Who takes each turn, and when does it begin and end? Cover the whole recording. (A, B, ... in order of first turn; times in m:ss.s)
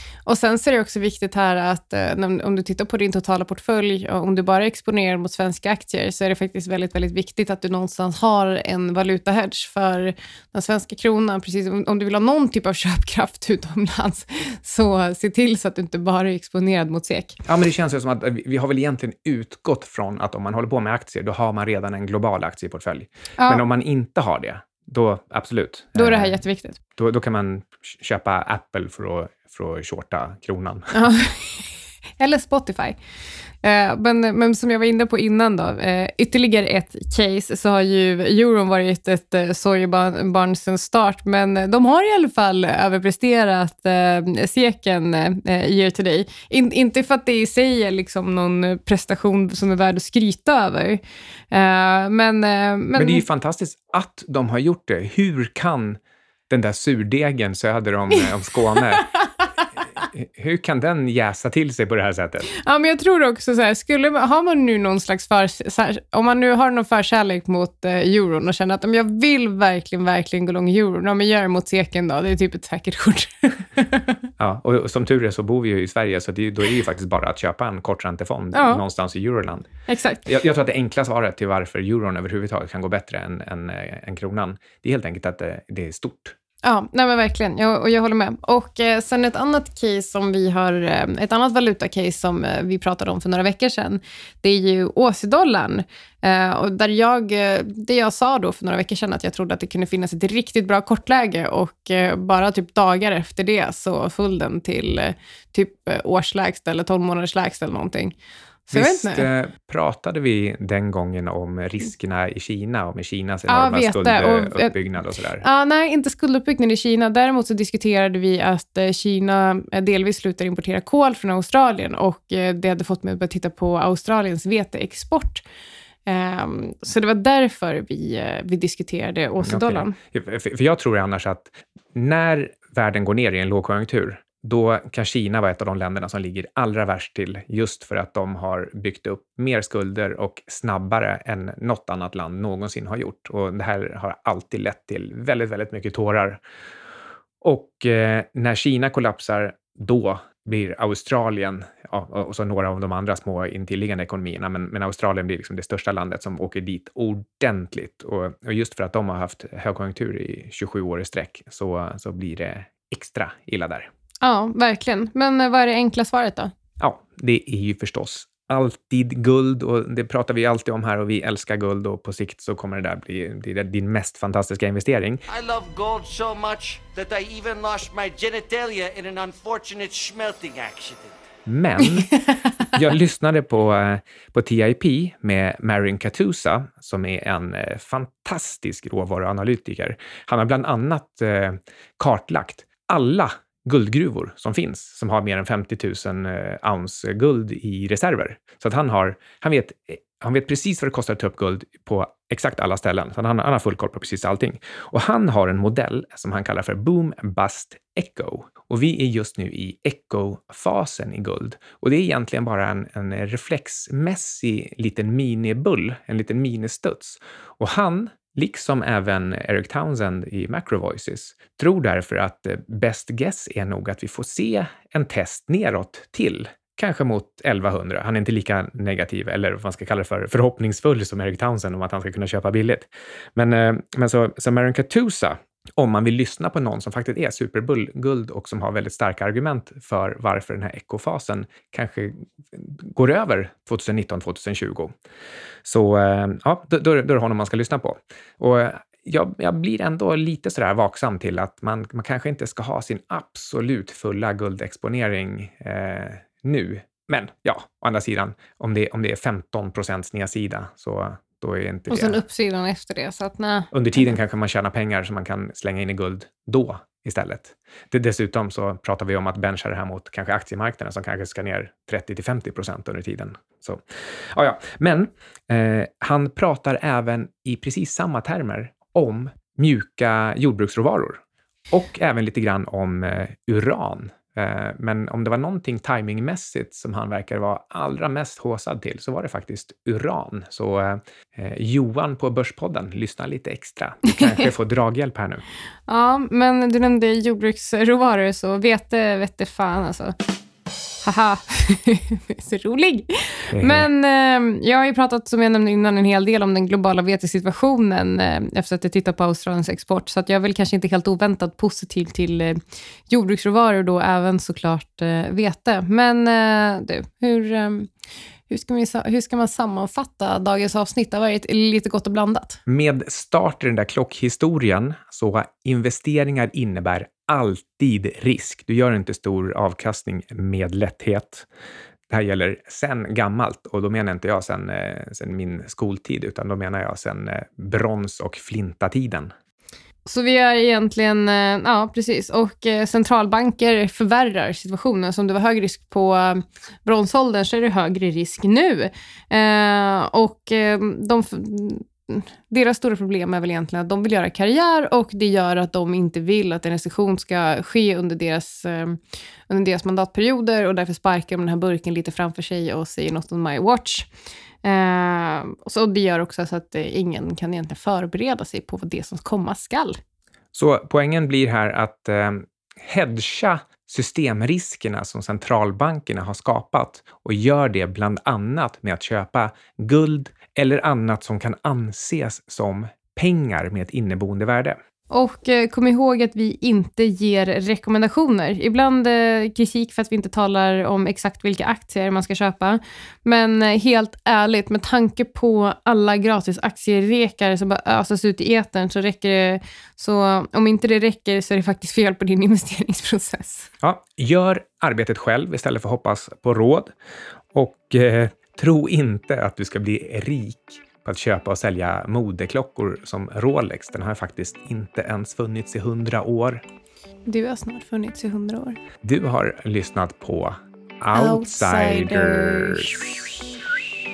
0:00.3-0:17.4 A
0:17.5-0:26.4 B
0:23.4-0:23.6 A
0:26.0-0:26.8 A
0:27.0-0:30.9 B
0:30.9-0:33.0 A
0:33.6-0:53.2 A
0:53.0-0:56.0 B
0:56.5-0:59.1 B
1:00.0-1:02.5 B
1:02.5-1:14.2 A
1:14.4-1:19.7 B
1:18.5-1:18.8 A
1:19.9-1:20.3 A
1:20.2-1:26.4 B
1:26.6-1:48.2 A
1:48.7-1:49.3 A
1:48.7-1:55.4 B
1:53.5-1:54.8 A
1:55.4-2:05.4 A
2:06.1-2:10.0 A
2:09.4-2:26.4 B
2:27.4-2:43.9 B
2:44.2-2:46.5 A
2:46.8-2:55.2 B
2:55.3-3:01.2 C
3:01.5-3:02.1 B
3:02.7-4:04.9 B
4:05.6-4:22.2 B
4:21.9-4:24.1 A
4:23.7-4:33.8 B
4:34.3-4:55.4 B
4:55.9-5:00.2 A
5:01.0-5:17.9 A
5:03.5-5:03.9 B
5:18.5-5:22.6 A
5:22.7-5:31.5 B
5:32.1-5:39.3 B
5:40.1-6:04.1 A
6:04.6-6:10.0 A
6:10.5-6:24.8 B
6:25.1-6:43.7 A
6:43.8-6:46.9 B
6:47.5-6:56.6 B
6:57.3-6:58.8 A
6:59.0-7:03.2 B
7:01.1-7:03.2 A